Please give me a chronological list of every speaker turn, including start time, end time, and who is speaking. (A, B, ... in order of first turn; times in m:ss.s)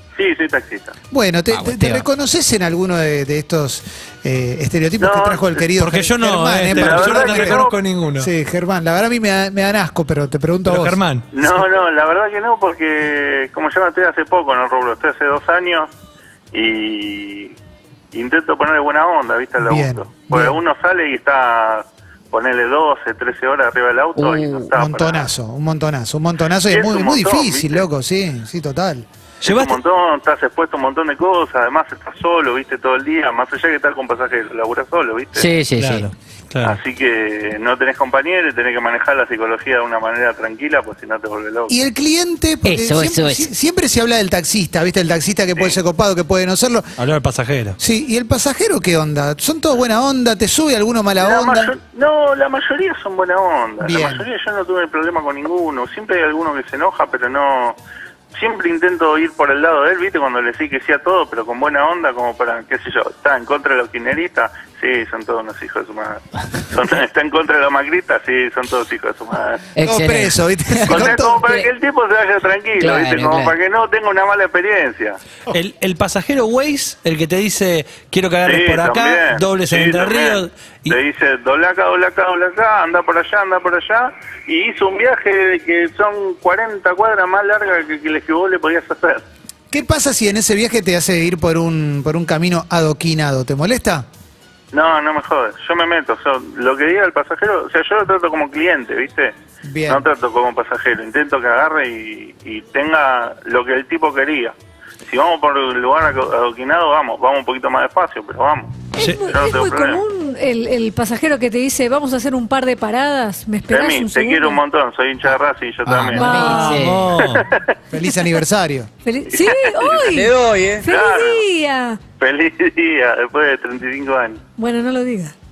0:00.2-0:00.9 A
0:01.1-0:07.7 B
0:01.5-0:02.1 C
0:05.0-0:05.7 A
0:05.8-0:08.3 D
0:06.8-0:07.8 A
0:08.2-0:11.0 B
0:10.7-0:11.3 D
0:11.3-0:15.9 A
0:16.5-0:17.6 A
0:18.1-0:25.3 A
0:19.6-0:20.6 B
0:24.2-0:24.7 C
0:24.7-0:29.1 B
0:26.7-0:27.9 A
0:29.4-0:35.5 A
0:29.4-0:29.8 D
0:35.4-0:36.1 C
0:35.8-0:36.8 D
0:36.6-0:41.7 A
0:41.7-0:46.9 B
0:42.6-0:43.5 C
0:47.0-0:47.8 D
0:47.8-0:51.7 B
0:51.2-0:57.8 A
0:53.8-0:54.2 B
0:58.4-1:09.6 A
1:09.8-1:11.7 C
1:09.8-1:11.4 B
1:10.9-1:15.2 A
1:12.8-1:13.5 C
1:15.5-1:21.0 D
1:18.4-1:29.2 A
1:29.7-1:34.1 B
1:34.7-1:39.3 A
1:39.6-1:40.0 B
1:39.9-1:44.5 A
1:45.1-1:50.0 A
1:49.0-1:54.6 E
1:53.7-1:56.5 A
1:55.8-1:57.1 C
1:56.2-1:56.9 E
1:56.4-1:57.4 D
1:57.2-1:57.7 A
1:57.9-1:58.9 B
1:59.0-2:02.0 E
1:59.3-2:00.3 A
2:00.2-2:00.7 C
2:00.8-2:01.5 A
2:02.2-2:04.4 A
2:04.6-2:05.3 E